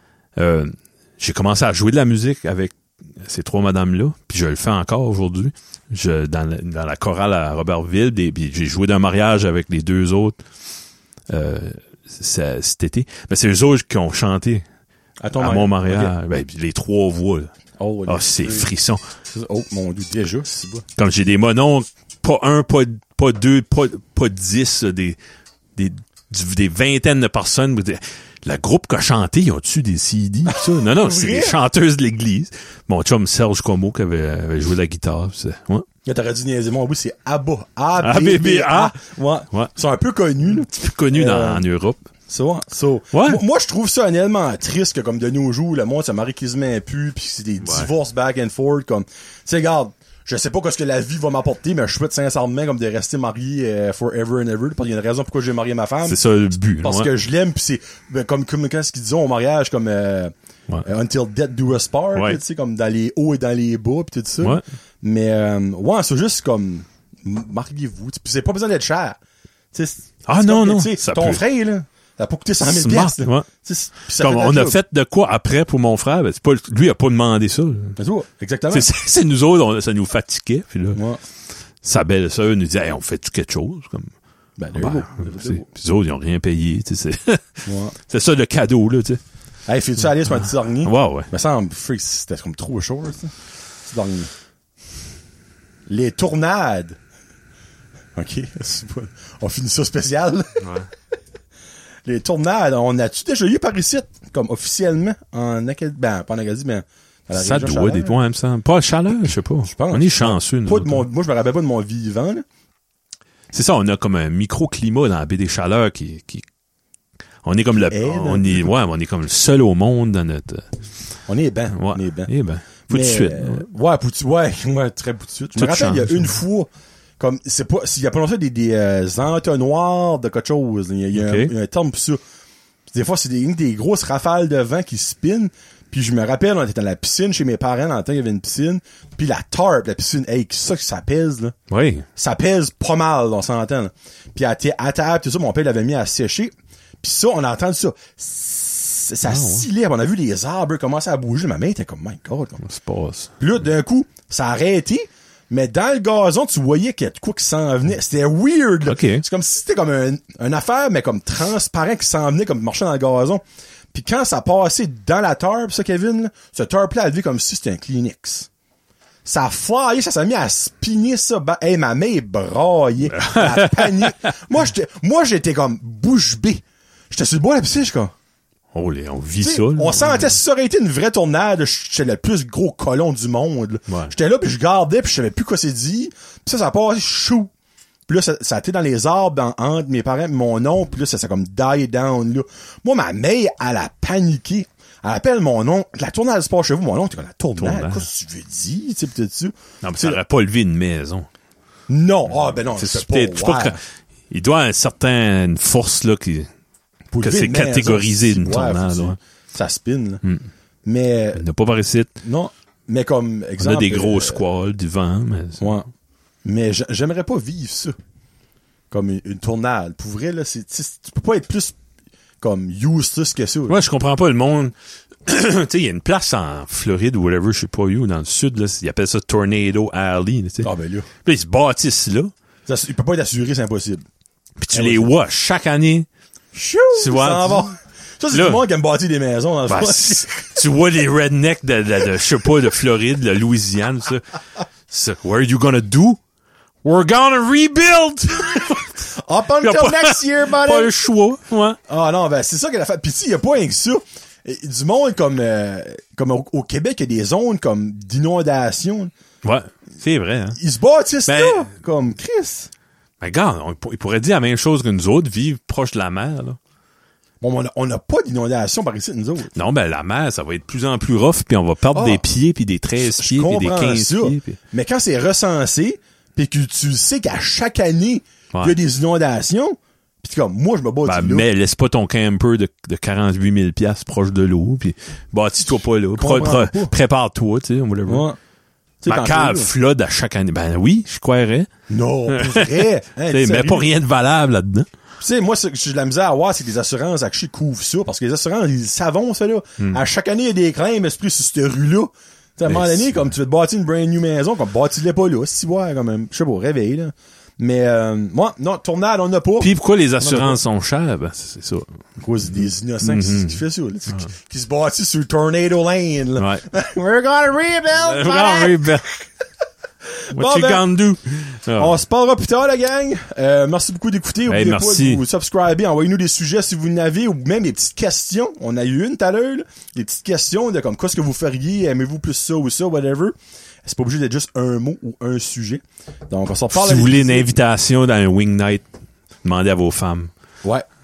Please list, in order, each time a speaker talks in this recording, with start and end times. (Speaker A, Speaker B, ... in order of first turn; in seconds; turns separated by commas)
Speaker A: 0.3-10.4, Speaker A: 11.3-14.6, Speaker B: 15.2-16.1, Speaker A: 15.4-17.5, Speaker B: 17.8-18.7, Speaker A: 18.1-19.0, Speaker B: 19.3-20.9, Speaker A: 21.0-25.2, Speaker A: 25.8-35.9, Speaker B: 30.4-31.6, Speaker B: 36.0-41.6, Speaker A: 38.0-38.9, Speaker A: 40.6-42.0, Speaker B: 42.3-56.2, Speaker A: 43.1-43.4, Speaker A: 47.6-47.9, Speaker A: 56.0-57.1, Speaker B: 56.8-69.2, Speaker B: 69.7-74.8, Speaker A: 70.2-71.4, Speaker A: 72.6-73.5, Speaker A: 74.2-78.0, Speaker B: 78.0-78.9, Speaker A: 78.7-81.0, Speaker B: 80.9-81.2, Speaker A: 81.8-84.1, Speaker B: 84.6-85.7, Speaker A: 84.7-89.2, Speaker B: 87.6-87.9, Speaker B: 89.7-93.3, Speaker A: 90.3-91.3, Speaker B: 93.8-94.3, Speaker B: 95.9-97.0, Speaker B: 98.2-100.7, Speaker A: 100.6-100.9, Speaker B: 102.0-108.1, Speaker A: 107.3-111.1, Speaker B: 109.6-112.4, Speaker A: 113.5-116.5, Speaker A: 117.4-120.7, Speaker B: 117.9-118.6, Speaker B: 121.3-122.3, Speaker A: 121.7-123.6, Speaker B: 122.9-132.2, Speaker A: 125.5-126.3, Speaker A: 131.1-131.5, Speaker B: 132.9-141.5, Speaker A: 141.7-142.1, Speaker B: 142.2-152.6, Speaker A: 149.3-149.7, Speaker A: 152.6-153.3, Speaker B: 153.4-163.4, Speaker A: 158.9-159.2, Speaker B: 163.9-168.5, Speaker B: 169.2-178.1, Speaker A: 173.1-174.3, Speaker A: 178.7-180.4, Speaker B: 179.4-187.5, Speaker A: 183.9-184.1, Speaker B: 188.1-200.2, Speaker A: 197.6-198.1, Speaker A: 199.8-201.3, Speaker B: 201.9-203.8, Speaker A: 202.7-203.8, Speaker A: 204.3-206.5, Speaker B: 207.1-210.2, Speaker A: 207.2-209.2, Speaker B: 210.8-211.4, Speaker A: 211.3-212.1, Speaker B: 212.2-214.4, Speaker A: 213.6-215.8, Speaker B: 215.6-215.9, Speaker B: 216.4-217.9, Speaker B: 218.9-221.7, Speaker B: 222.4-223.8, Speaker A: 223.7-230.7, Speaker B: 230.6-231.1, Speaker A: 231.2-232.3, Speaker B: 232.7-234.0, Speaker A: 234.6-236.1, Speaker B: 234.7-235.1, Speaker B: 236.5-240.5, Speaker A: 236.9-237.7, Speaker A: 238.3-238.6, Speaker A: 239.7-244.3, Speaker A: 244.9-246.2, Speaker A: 246.8-248.9, Speaker B: 248.5-250.9, Speaker A: 249.6-251.8, Speaker B: 251.9-259.1, Speaker A: 259.4-260.6, Speaker B: 260.6-262.7, Speaker A: 261.3-261.6, Speaker A: 263.2-266.6, Speaker B: 267.4-269.5, Speaker A: 269.5-274.6, Speaker B: 271.9-272.2, Speaker B: 273.1-281.4, Speaker A: 281.1-288.3, Speaker B: 286.1-286.9, Speaker B: 288.1-288.4, Speaker B: 289.0-289.7, Speaker A: 289.1-291.7, Speaker B: 291.9-293.9, Speaker A: 292.3-294.9, Speaker B: 295.2-310.6, Speaker A: 302.7-303.2, Speaker A: 309.6-311.9, Speaker B: 312.2-318.9, Speaker A: 312.6-314.2, Speaker A: 316.4-316.6, Speaker A: 318.0-319.1, Speaker B: 320.3-320.8, Speaker A: 320.3-322.0, Speaker B: 321.7-337.5, Speaker A: 324.5-325.2, Speaker A: 336.7-338.9, Speaker A: 339.4-340.3